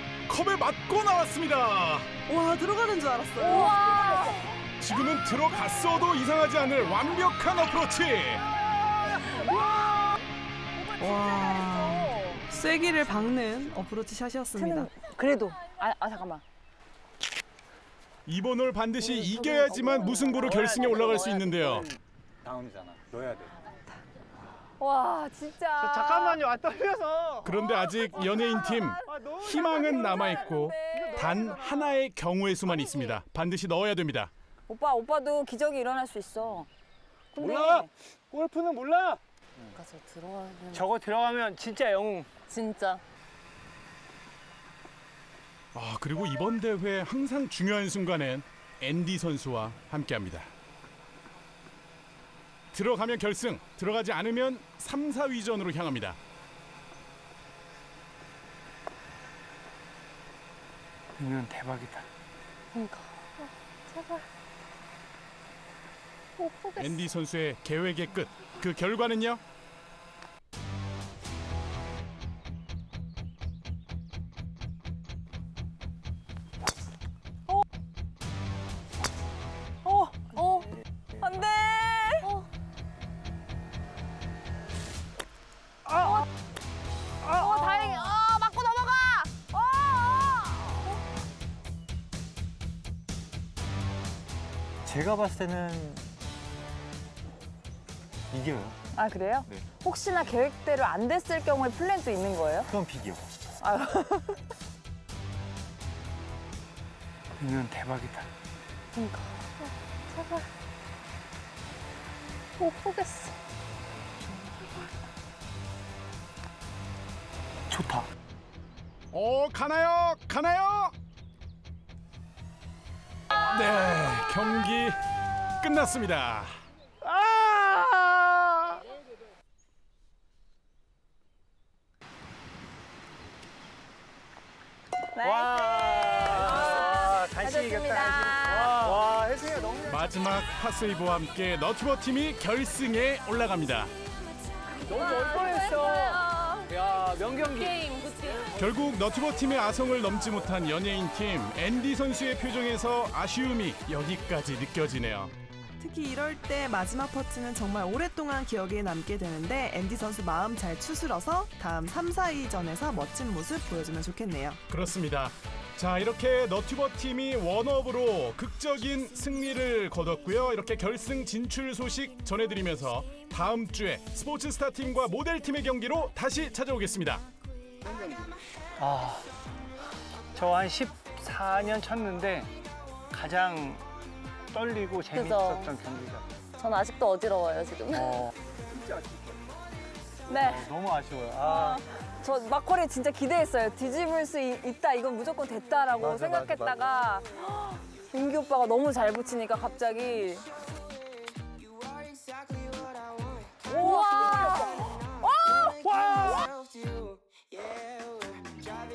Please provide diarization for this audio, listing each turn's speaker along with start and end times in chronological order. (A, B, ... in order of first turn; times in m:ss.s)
0:00.3-0:02.1 A
0:02.3-0:04.4 B
0:03.4-0:04.6 C
0:04.8-0:08.5 A
0:09.1-0:10.2 D
0:10.9-0:12.4 C
0:11.0-0:14.9 B
0:14.5-0:16.4 C
0:18.3-0:21.9 A
0:19.0-0:21.5 C
0:20.3-0:21.9 D
0:22.4-0:23.6 E
0:24.8-0:26.4 C
0:25.8-0:27.5 D
0:27.4-0:34.3 A
0:27.6-0:31.6 C
0:29.1-0:32.0 D
0:32.7-0:33.2 C
0:34.7-0:36.7 C
0:37.3-0:37.9 C
0:37.4-0:39.2 D
0:39.7-0:40.9 F
0:40.7-0:42.3 D
0:42.5-0:43.0 F
0:45.7-0:50.5 A
0:52.7-0:56.2 A
1:01.2-1:02.1 D
1:02.7-1:04.2 F
1:06.4-1:07.1 F
1:06.8-1:09.4 A
1:19.8-1:22.3 C
1:22.2-1:22.5 F
1:25.9-1:26.2 D
1:27.2-1:28.1 D
1:27.4-1:30.8 C
1:34.8-1:36.1 E
1:38.3-1:38.8 E
1:38.9-1:42.7 C
1:42.7-1:43.3 E
1:43.6-1:44.4 C
1:47.4-1:48.3 D
1:48.9-1:50.5 F
1:52.6-1:53.4 F
1:57.7-1:58.1 D
1:59.1-2:00.9 A
2:03.5-2:05.0 A
2:05.6-2:06.6 A
2:07.0-2:08.8 D
2:15.2-2:19.0 C
2:15.2-2:20.2 D
2:19.9-2:23.9 A
2:24.8-2:26.7 C
2:24.8-2:27.9 D
2:27.5-2:28.6 F
2:28.6-2:35.3 A
2:35.8-2:44.6 B
2:44.7-2:57.2 A
2:58.8-2:59.3 D
3:00.3-3:02.5 D
3:03.1-3:03.8 D
3:04.5-3:06.3 D
3:05.2-3:05.7 F
3:06.6-3:08.3 F
3:08.0-3:09.4 E
3:10.3-3:10.7 C
3:10.3-3:11.8 E
3:11.4-3:20.5 C
3:16.0-3:16.9 E
3:23.7-3:25.8 C
3:23.7-3:24.8 D
3:25.7-3:26.5 D